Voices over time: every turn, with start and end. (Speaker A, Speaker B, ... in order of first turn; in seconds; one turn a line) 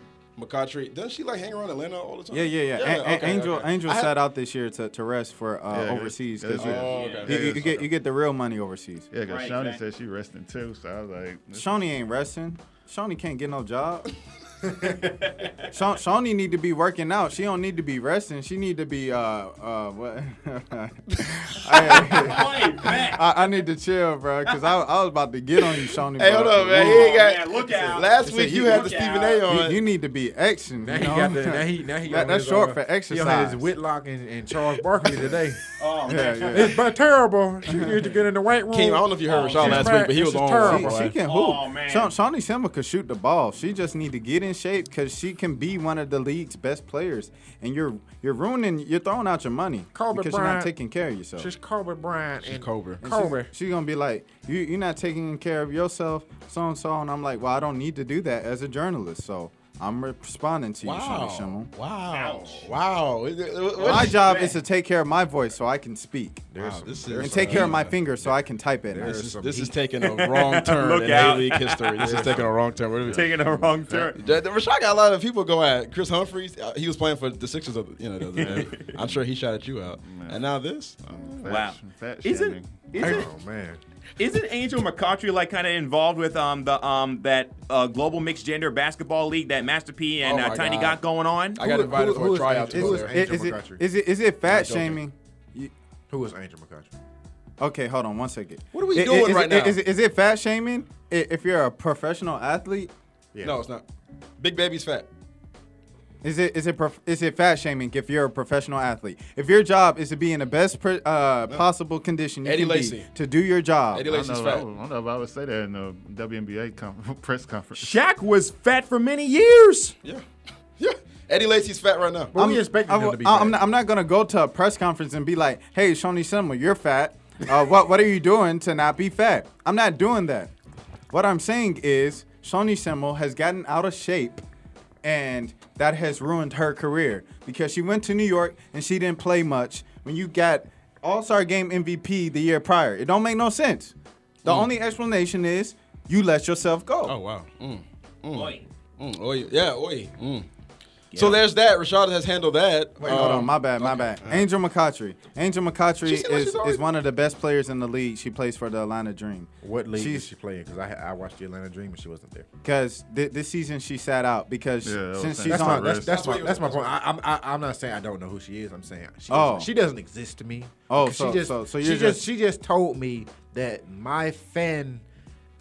Speaker A: 0.4-4.1
Speaker B: 2.3-9.1
Speaker C: 5.7-7.9
Speaker A: 6.5-7.6
Speaker D: 6.9-7.3
Speaker C: 9.1-11.7
Speaker D: 9.2-9.8
Speaker B: 11.6-14.1
Speaker D: 14.8-15.7
Speaker B: 15.7-27.2
Speaker D: 21.7-23.3
Speaker A: 26.2-29.8
Speaker D: 26.7-29.4
Speaker B: 28.2-33.6
Speaker E: 30.8-35.6
Speaker D: 35.8-36.8
Speaker B: 36.1-36.8
Speaker E: 36.5-41.1
Speaker B: 37.7-38.0
Speaker A: 38.7-41.0
Speaker C: 39.5-40.0
Speaker B: 40.6-51.5
Speaker C: 40.9-41.1
Speaker D: 41.2-42.1
Speaker E: 49.9-50.7
Speaker E: 51.4-53.5
Speaker A: 52.4-53.0
Speaker B: 53.0-61.7
Speaker A: 60.8-64.2
Speaker D: 62.1-62.7
Speaker D: 63.8-64.6
Speaker B: 63.8-66.5
Speaker E: 66.5-67.8
Speaker A: 66.6-68.0
Speaker B: 67.2-69.2
Speaker E: 68.9-69.8
Speaker A: 69.0-81.0
Speaker D: 70.0-72.4
Speaker D: 73.1-74.2
Speaker D: 78.4-78.9
Speaker C: 78.4-79.0
Speaker C: 80.0-80.5
Speaker C: 81.0-83.2
Speaker D: 81.5-83.3
Speaker E: 83.0-83.8
Speaker D: 84.2-91.6
Speaker A: 90.2-91.0
Speaker A: 91.6-93.1
Speaker E: 91.6-93.8
Speaker B: 92.7-95.7
Speaker A: 94.5-95.0
Speaker E: 96.1-96.9
Speaker B: 97.6-102.9
Speaker A: 98.7-99.8
Speaker A: 103.4-103.8
Speaker A: 104.4-105.1
Speaker B: 106.2-114.1
Speaker A: 112.4-113.1
Speaker A: 113.9-114.7
Speaker C: 114.1-118.0
Speaker D: 117.8-119.9
Speaker A: 120.8-122.3
Speaker E: 122.3-123.6
Speaker B: 122.3-130.5
Speaker B: 131.1-134.4
Speaker B: 135.0-147.2
Speaker A: 144.4-144.7
Speaker A: 147.1-150.5
Speaker D: 148.3-148.6
Speaker D: 151.1-151.4
Speaker A: 151.1-154.4
Speaker B: 153.0-160.3
Speaker E: 156.1-156.7
Speaker A: 156.3-156.5
Speaker E: 159.6-162.5
Speaker B: 162.6-166.0
Speaker C: 164.8-166.4
Speaker E: 165.4-175.0
Speaker A: 166.1-166.9
Speaker B: 169.3-169.7
Speaker B: 170.9-172.3